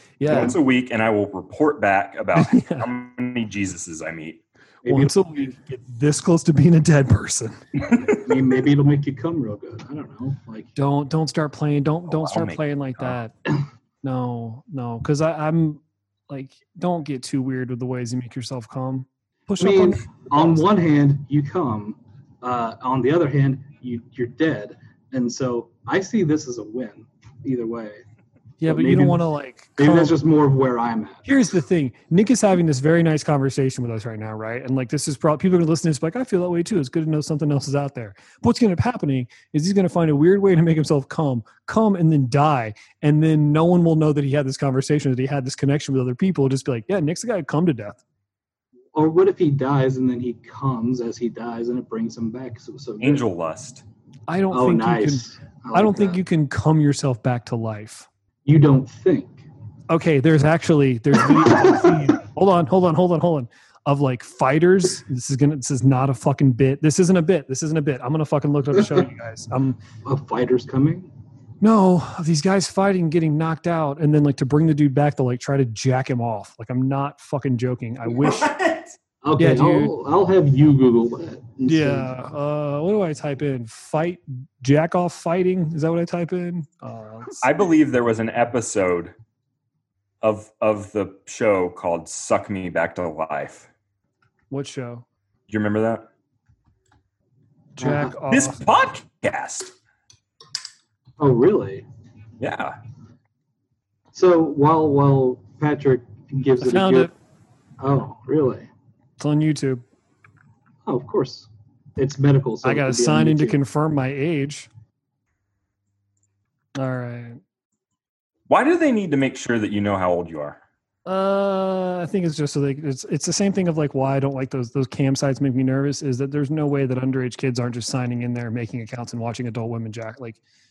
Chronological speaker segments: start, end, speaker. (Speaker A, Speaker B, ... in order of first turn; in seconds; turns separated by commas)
Speaker A: 0.2-0.6, Speaker B: 0.3-4.4, Speaker A: 2.4-2.9, Speaker C: 4.8-5.1, Speaker A: 4.8-7.6, Speaker B: 7.8-8.2, Speaker C: 8.1-10.7, Speaker A: 10.8-13.3, Speaker B: 12.1-13.2, Speaker A: 14.0-20.6, Speaker C: 19.6-28.0, Speaker A: 28.6-30.1, Speaker C: 28.6-29.2, Speaker C: 29.8-31.3, Speaker A: 31.2-48.0, Speaker C: 48.9-53.2, Speaker B: 53.0-53.8, Speaker A: 54.3-58.1, Speaker C: 54.5-56.2, Speaker C: 58.5-59.4, Speaker A: 59.9-69.8, Speaker C: 61.2-62.0, Speaker C: 70.0-71.1, Speaker A: 71.6-78.5, Speaker B: 78.2-78.9, Speaker C: 79.2-82.1, Speaker A: 79.4-79.9, Speaker A: 81.7-87.4, Speaker B: 87.4-89.1, Speaker B: 90.2-93.7, Speaker A: 94.5-95.0, Speaker B: 95.5-96.1, Speaker A: 97.8-98.6, Speaker C: 97.8-98.1, Speaker B: 98.3-99.7, Speaker C: 101.2-101.8, Speaker B: 102.4-102.8, Speaker C: 104.1-107.1, Speaker A: 106.6-107.1, Speaker C: 107.8-108.7, Speaker A: 109.2-109.8, Speaker C: 110.8-113.6, Speaker A: 112.6-114.7, Speaker A: 116.8-117.4, Speaker B: 118.5-120.6, Speaker A: 121.0-130.4